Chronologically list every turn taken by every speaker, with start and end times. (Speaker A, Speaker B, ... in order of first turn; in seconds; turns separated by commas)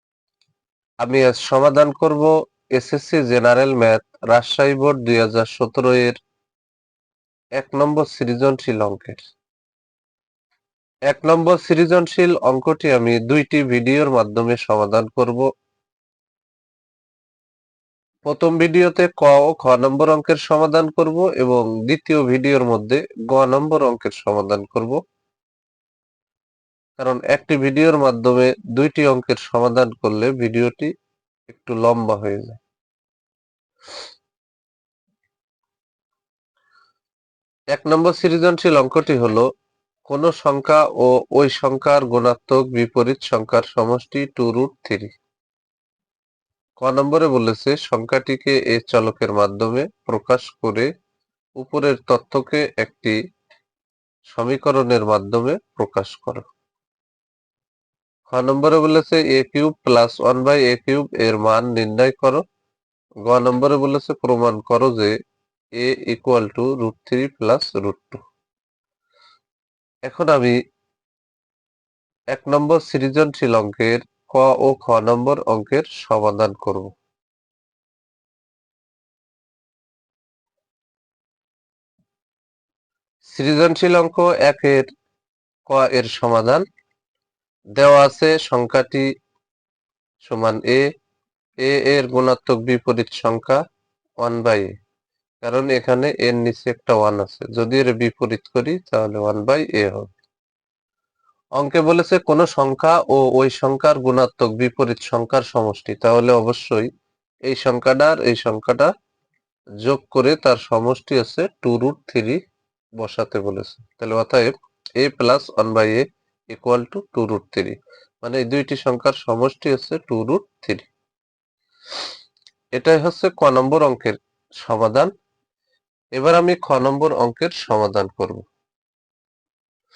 Speaker A: 1.0-6.2, Speaker A: 7.6-9.2, Speaker A: 11.1-15.5, Speaker A: 18.3-25.0, Speaker A: 27.0-30.9, Speaker A: 31.5-32.6, Speaker A: 37.7-39.5, Speaker A: 40.1-45.1, Speaker A: 46.8-50.9, Speaker A: 51.6-53.2, Speaker A: 54.3-56.5, Speaker A: 58.3-62.4, Speaker A: 63.2-65.1, Speaker A: 65.8-68.2, Speaker A: 70.1-70.6, Speaker A: 72.3-76.9, Speaker A: 83.2-84.9, Speaker A: 85.7-86.6, Speaker A: 87.8-89.1, Speaker A: 90.2-90.9, Speaker A: 91.6-93.6, Speaker A: 94.2-94.7, Speaker A: 95.4-100.1, Speaker A: 101.6-106.9, Speaker A: 107.5-108.9, Speaker A: 109.8-112.4, Speaker A: 113.0-120.9, Speaker A: 122.8-125.1, Speaker A: 126.2-128.4